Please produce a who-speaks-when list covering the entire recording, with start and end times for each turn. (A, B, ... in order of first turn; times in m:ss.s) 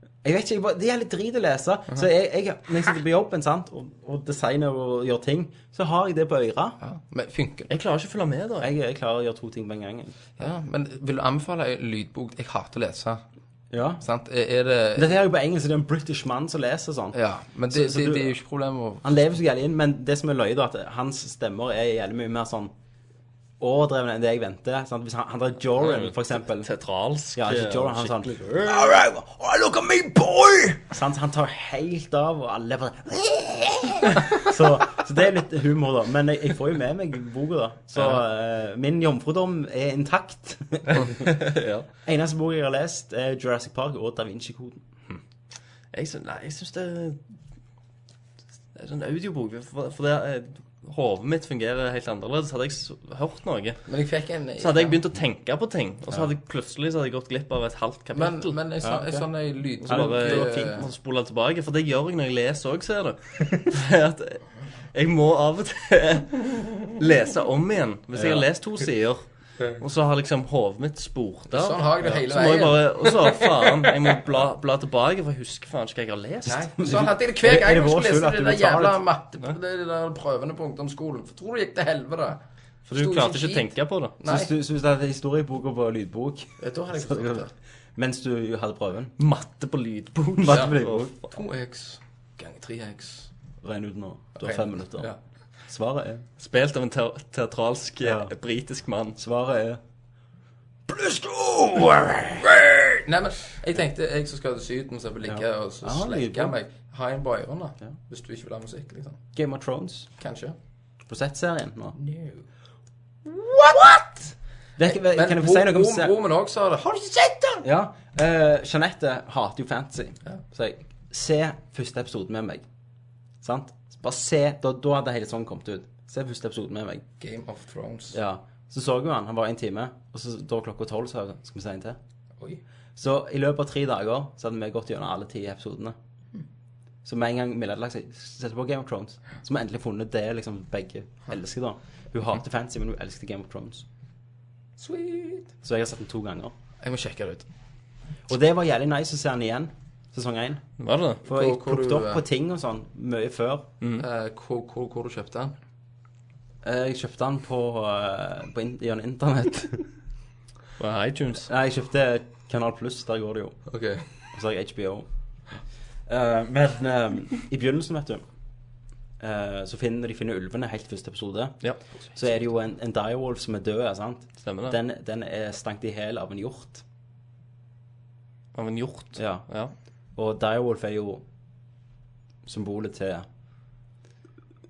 0:00.2-0:06.8 A
0:06.8-0:07.7 B
0:07.7-0:08.7 C
0:08.6-0:10.2 A
0:10.4-0:13.2 B
0:13.7-0:14.0 A
0:14.0-0:15.2 B
0:15.0-0:18.3 A
0:17.1-0:19.0 B
0:19.0-0:22.7 A
0:23.6-0:26.7 A
0:25.8-0:29.0 C
0:27.4-0:41.4 A
0:40.9-0:41.9 C
0:42.0-0:44.8 A
0:45.9-0:47.2 C
0:48.7-0:53.8 C
0:53.9-0:55.0 B
0:54.6-0:58.6 C
0:58.1-1:00.9 B
0:58.8-0:59.2 A
0:59.8-1:09.2 C
0:59.8-1:00.7 A
1:08.1-1:08.4 A
1:09.8-1:16.7 C
1:11.5-1:13.9 B
1:16.4-1:24.5 B
1:16.8-1:19.0 A
1:22.8-1:24.1 C
1:24.2-1:29.1 A
1:26.6-1:27.5 B
1:29.2-1:31.3 C
1:30.3-1:31.1 A
1:30.5-1:33.3 B
1:33.6-1:35.1 A
1:34.4-1:35.2 B
1:35.7-1:36.2 A
1:36.4-1:39.2 C
1:38.0-1:38.3 A
1:39.2-1:39.8 A
1:40.9-1:42.5 A
1:42.4-1:49.2 B
1:45.2-1:46.5 A
1:49.3-1:50.1 A
1:50.2-1:50.6 B
1:51.1-1:52.0 A
1:52.0-1:52.4 B
1:53.2-1:54.3 B
1:54.8-1:56.1 A
1:54.8-1:57.6 B
1:57.6-2:02.6 A
2:03.4-2:07.0 A
2:07.2-2:08.2 B
2:08.1-2:12.0 A
2:13.0-2:16.0 A
2:17.0-2:23.8 A
2:24.8-2:25.5 B
2:25.6-2:26.5 A
2:26.8-2:27.5 B
2:28.3-2:30.6 A
2:30.8-2:31.2 C
2:31.2-2:33.7 A
2:31.2-2:32.2 B
2:34.0-2:35.5 B
2:36.6-2:39.9 A
2:40.8-2:41.5 C
2:41.4-2:43.6 A
2:43.7-2:44.1 B
2:44.3-2:45.1 A
2:46.1-2:48.2 A
2:49.2-2:51.6 A
2:52.1-2:56.8 A
2:54.4-2:54.8 C
2:58.5-2:59.7 C
2:59.2-2:59.4 A
3:00.2-3:01.2 A
3:02.4-3:03.2 A